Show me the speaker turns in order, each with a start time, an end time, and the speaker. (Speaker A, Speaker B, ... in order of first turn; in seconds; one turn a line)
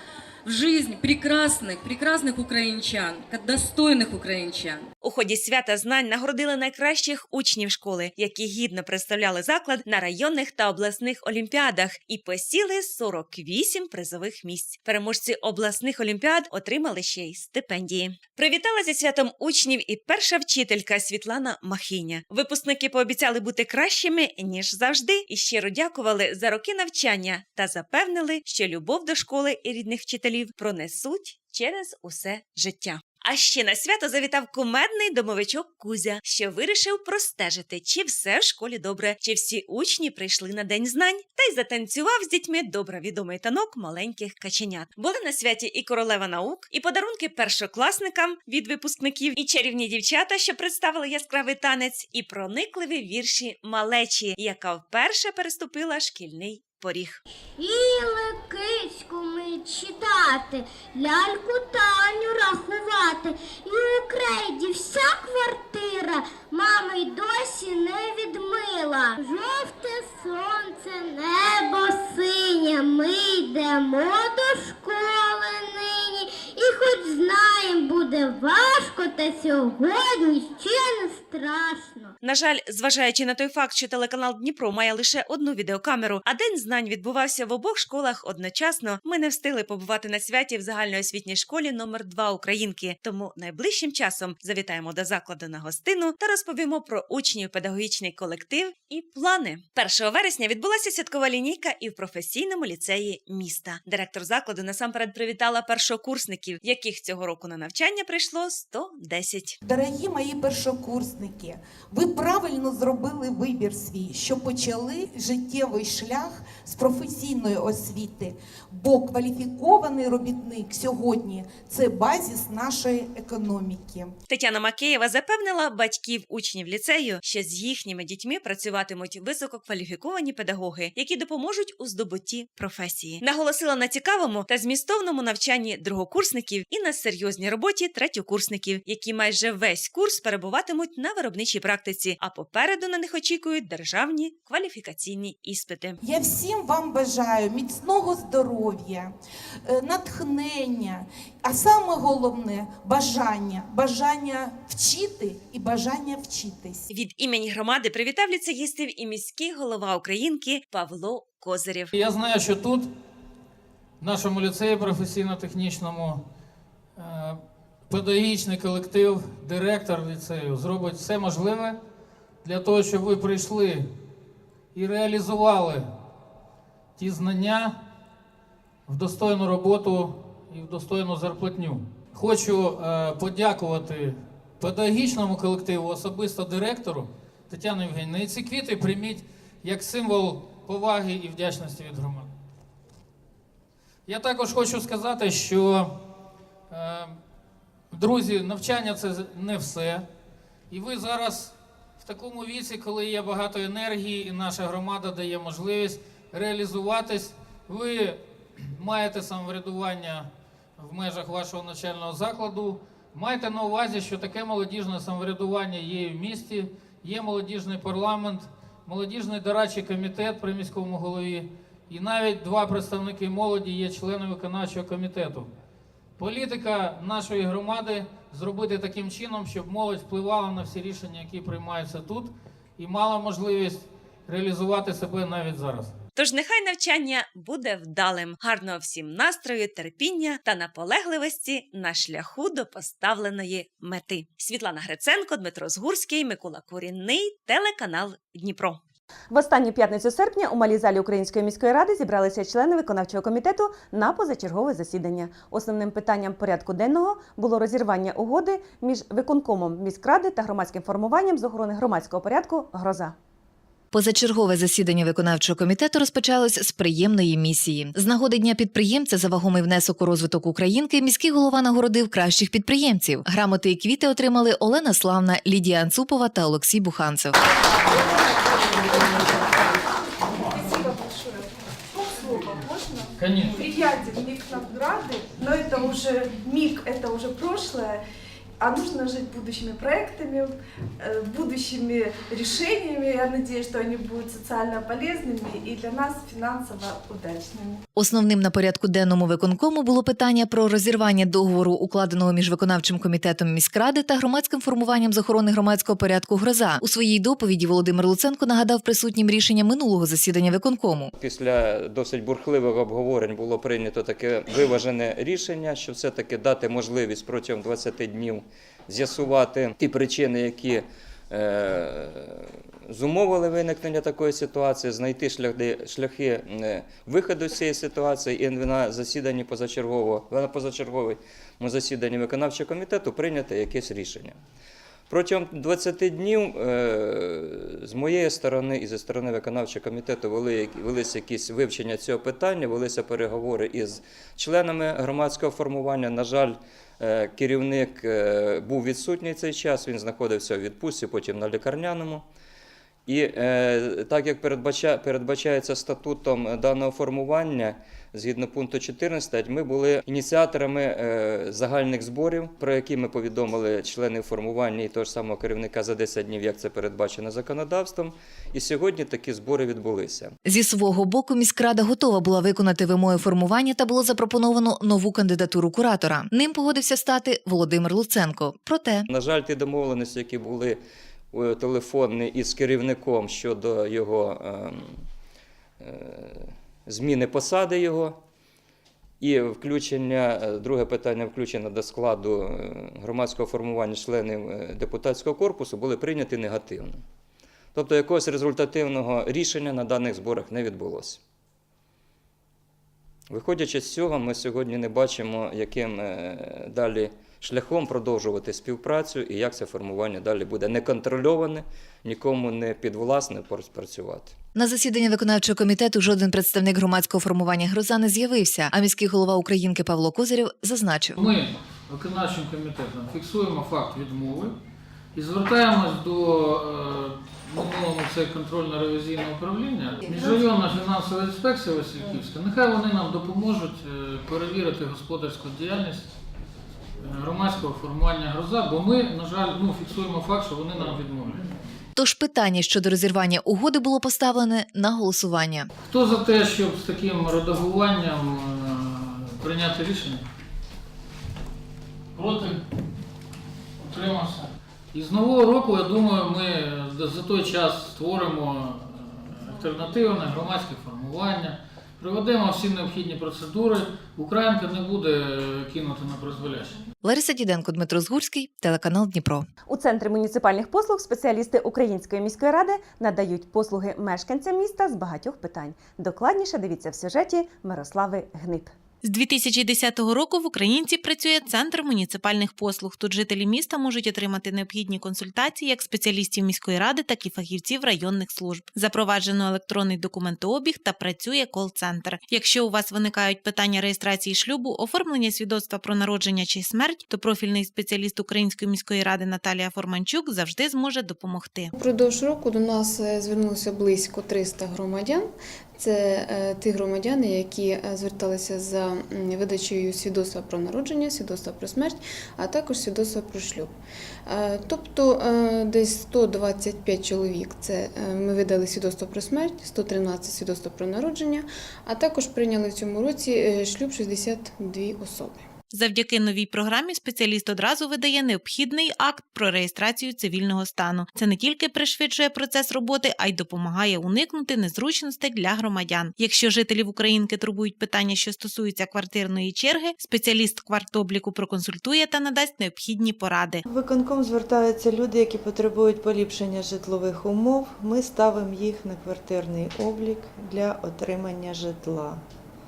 Speaker A: 0.5-4.9
Speaker B: 5.0-57.2
Speaker C: 57.6-82.1
Speaker B: 82.2-109.6
Speaker D: 109.6-124.1
Speaker B: 124.3-146.0
Speaker D: 146.0-149.1
Speaker D: 149.7-156.9
Speaker B: 156.9-161.9
Speaker E: 161.9-162.9
Speaker E: 164.0-166.2
Speaker E: 167.0-171.8
Speaker E: 172.4-173.9
Speaker E: 174.7-175.9
Speaker E: 177.0-177.8
Speaker E: 178.9-192.3
Speaker E: 194.1-196.0
Speaker E: 196.7-197.2
Speaker E: 197.9-200.1
Speaker E: 200.7-225.5
Speaker E: 226.2-235.9
Speaker B: 236.2-248.8
Speaker B: 249.3-263.1
Speaker F: 263.9-277.4
Speaker G: 277.8-288.0
Speaker E: 283.2-283.5
Speaker G: 288.6-297.8
Speaker F: 298.0-311.1
Speaker H: 311.2-334.4
Speaker H: 335.1-352.2
Speaker H: 353.1-370.4
Speaker F: 370.4-379.1
Speaker H: 379.1-380.8
Speaker H: 381.3-385.1
Speaker H: 385.8-388.2
Speaker H: 389.2-397.0
Speaker H: 397.7-401.2
Speaker H: 403.3-414.4
Speaker F: 414.6-421.2
Speaker E: 421.2-424.6
Speaker E: 425.1-436.1
Speaker E: 437.0-441.5
Speaker F: 442.0-445.7
Speaker E: 445.8-450.2
Speaker E: 452.1-452.6
Speaker E: 453.8-466.8
Speaker F: 467.0-469.5
Speaker B: 469.7-478.7
Speaker I: 479.0-501.7
Speaker J: 501.8-513.8
Speaker J: 514.3-525.5
Speaker I: 525.7-543.6
Speaker K: 543.7-552.2